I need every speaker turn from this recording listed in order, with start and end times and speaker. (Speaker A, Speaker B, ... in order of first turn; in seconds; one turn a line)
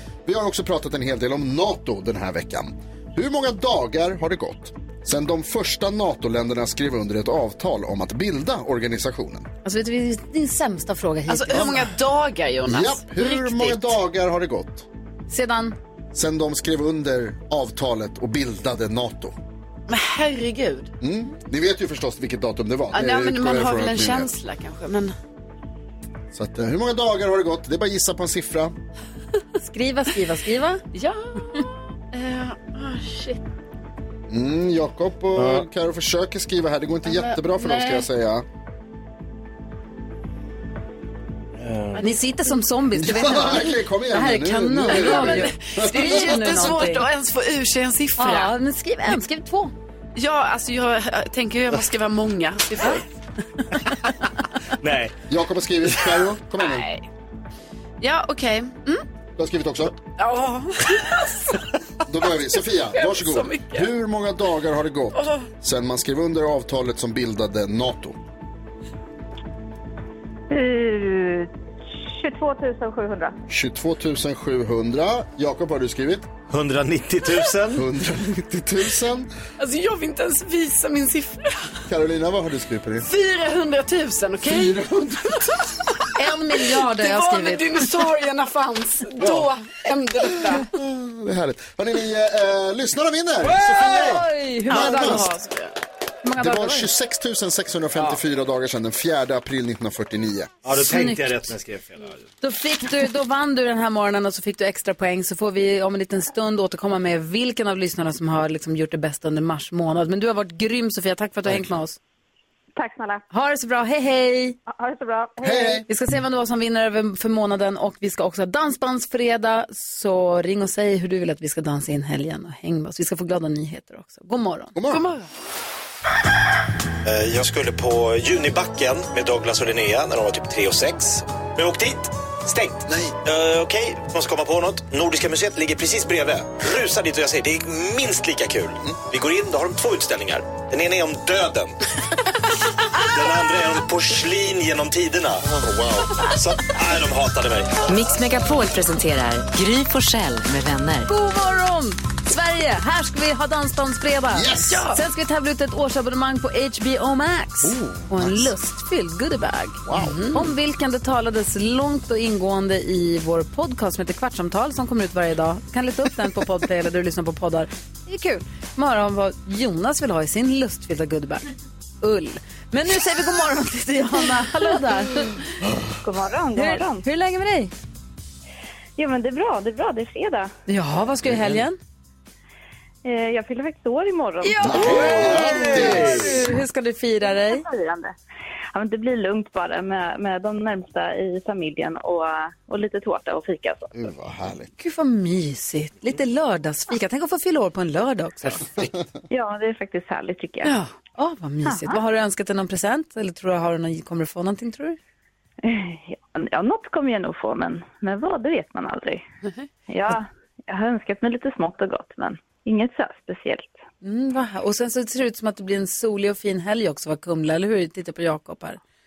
Speaker A: 0.2-9.5
Speaker B: 9.6-11.9
Speaker C: 11.3-13.9
Speaker A: 12.7-14.9
Speaker B: 15.3-15.8
Speaker A: 16.1-19.4
Speaker C: 19.9-20.9
Speaker A: 21.0-24.3
Speaker C: 22.9-25.1
Speaker A: 26.3-28.8
Speaker B: 29.6-30.8
Speaker C: 30.9-31.4
Speaker C: 32.1-33.4
Speaker A: 34.3-38.5
Speaker D: 35.4-35.6
Speaker C: 37.1-38.0
Speaker D: 41.6-42.0
Speaker B: 42.0-47.1
Speaker A: 42.9-46.4
Speaker C: 44.9-48.5
Speaker B: 48.2-49.7
Speaker C: 50.1-53.0
Speaker D: 54.8-55.1
Speaker A: 55.3-56.9
Speaker C: 56.6-57.0
Speaker C: 58.0-59.0
Speaker A: 59.4-60.0
Speaker C: 60.2-61.6
Speaker A: 62.0-68.2
Speaker C: 62.9-63.9
Speaker C: 65.1-65.5
Speaker E: 70.5-71.5
Speaker E: 72.0-73.3
Speaker A: 73.5-76.3
Speaker D: 76.5-77.8
Speaker A: 77.7-79.3
Speaker C: 79.6-81.7
Speaker A: 81.9-83.1
Speaker C: 83.0-84.8
Speaker A: 84.4-85.6
Speaker B: 86.1-87.8
Speaker C: 86.6-90.7
Speaker A: 89.2-89.5
Speaker A: 90.6-95.3
Speaker B: 93.5-95.3
Speaker C: 94.7-95.8
Speaker B: 96.2-96.9
Speaker A: 96.4-100.5
Speaker D: 100.6-102.3
Speaker B: 100.8-101.5
Speaker B: 102.4-112.0
Speaker E: 112.8-113.2
Speaker B: 113.3-114.6
Speaker E: 114.7-115.8
Speaker A: 115.4-115.8
Speaker B: 115.9-124.7
Speaker A: 124.7-125.0
Speaker C: 124.9-125.3
Speaker D: 127.0-141.7
Speaker A: 132.9-133.1
Speaker D: 142.9-147.7
Speaker F: 147.9-151.1
Speaker B: 151.1-171.4
Speaker A: 154.3-154.8
Speaker C: 154.7-155.0
Speaker A: 157.6-158.5
Speaker A: 159.8-160.2
Speaker C: 159.9-160.5
Speaker B: 172.0-175.4
Speaker E: 176.0-177.0
Speaker B: 176.6-177.7
Speaker E: 179.0-180.5
Speaker B: 180.7-181.8
Speaker E: 183.0-184.7
Speaker B: 184.4-187.6
Speaker A: 184.6-186.3
Speaker D: 184.7-186.4
Speaker E: 187.2-188.1
Speaker E: 188.7-193.9
Speaker A: 193.9-194.7
Speaker B: 194.8-198.7
Speaker E: 199.3-200.7
Speaker B: 201.2-205.0
Speaker E: 201.6-202.0
Speaker E: 205.6-209.2
Speaker E: 209.9-213.8
Speaker B: 214.0-218.8